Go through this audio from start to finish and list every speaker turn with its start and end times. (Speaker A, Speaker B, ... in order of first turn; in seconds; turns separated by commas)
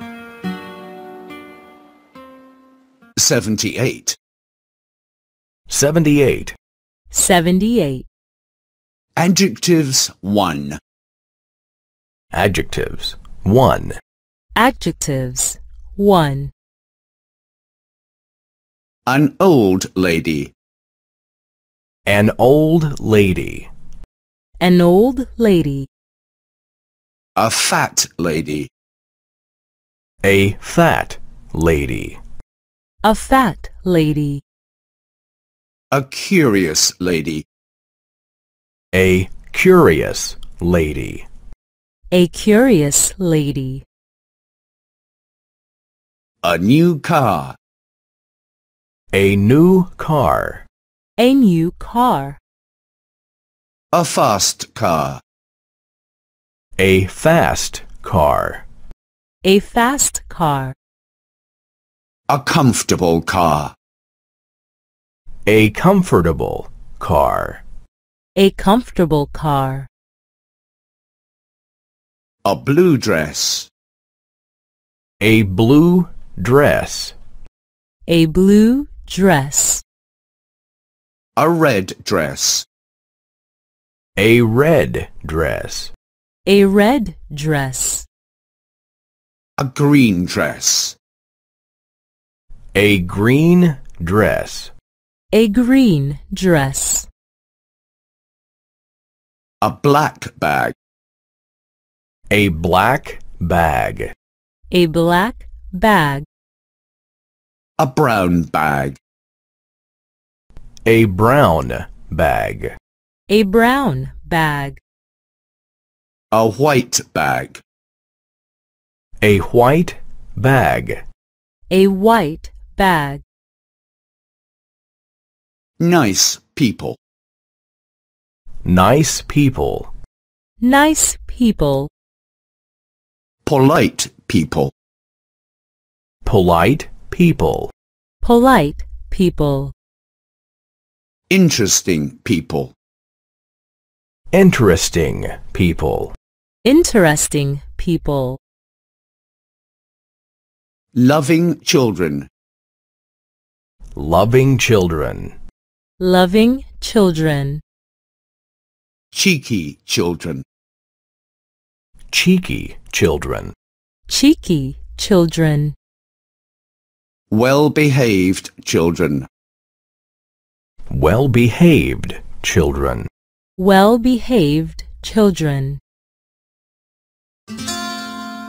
Speaker A: 3.2-4.2, Speaker B: 5.7-6.6, Speaker C: 7.1-8.1, Speaker A: 9.2-10.8, Speaker B: 12.3-14.0, Speaker C: 14.6-16.5, Speaker A: 19.1-20.5, Speaker B: 22.1-23.7, Speaker C: 24.6-25.9, Speaker A: 27.4-28.7, Speaker B: 30.2-32.2, Speaker C: 33.0-34.4, Speaker A: 35.9-37.5, Speaker B: 38.9-41.3, Speaker C: 42.1-43.8, Speaker A: 46.4-47.6, Speaker B: 49.1-50.6, Speaker C: 51.2-52.4, Speaker A: 53.9-55.2, Speaker B: 56.8-58.6, Speaker C: 59.4-60.8, Speaker A: 62.3-63.7, Speaker B: 65.5-67.6, Speaker C: 68.3-69.9, Speaker A: 72.4-73.7, Speaker B: 75.2-77.2, Speaker C: 78.1-79.8, Speaker A: 81.4-82.7, Speaker B: 84.2-85.9, Speaker C: 86.5-88.1, Speaker A: 89.6-91.0, Speaker B: 92.7-94.7, Speaker C: 95.3-97.1, Speaker A: 99.6-100.8, Speaker B: 102.3-104.1, Speaker C: 104.7-106.3, Speaker A: 107.8-109.0, Speaker B: 110.9-112.8, Speaker C: 113.3-114.8, Speaker A: 116.3-117.6, Speaker B: 119.2-121.0, Speaker C: 121.7-123.2, Speaker A: 125.8-127.0, Speaker B: 128.7-129.9, Speaker C: 130.6-131.9, Speaker A: 133.4-134.7, Speaker B: 136.2-137.7, Speaker C: 138.2-139.7, Speaker A: 141.3-142.7, Speaker B: 144.3-146.1, Speaker C: 146.6-148.4, Speaker A: 150.9-152.3, Speaker B: 153.9-155.3, Speaker C: 156.0-157.6, Speaker A: 159.1-160.4, Speaker B: 162.1-163.5, Speaker C: 164.1-165.8, Speaker A: 167.3-169.3, Speaker B: 170.9-173.1, Speaker C: 173.6-175.8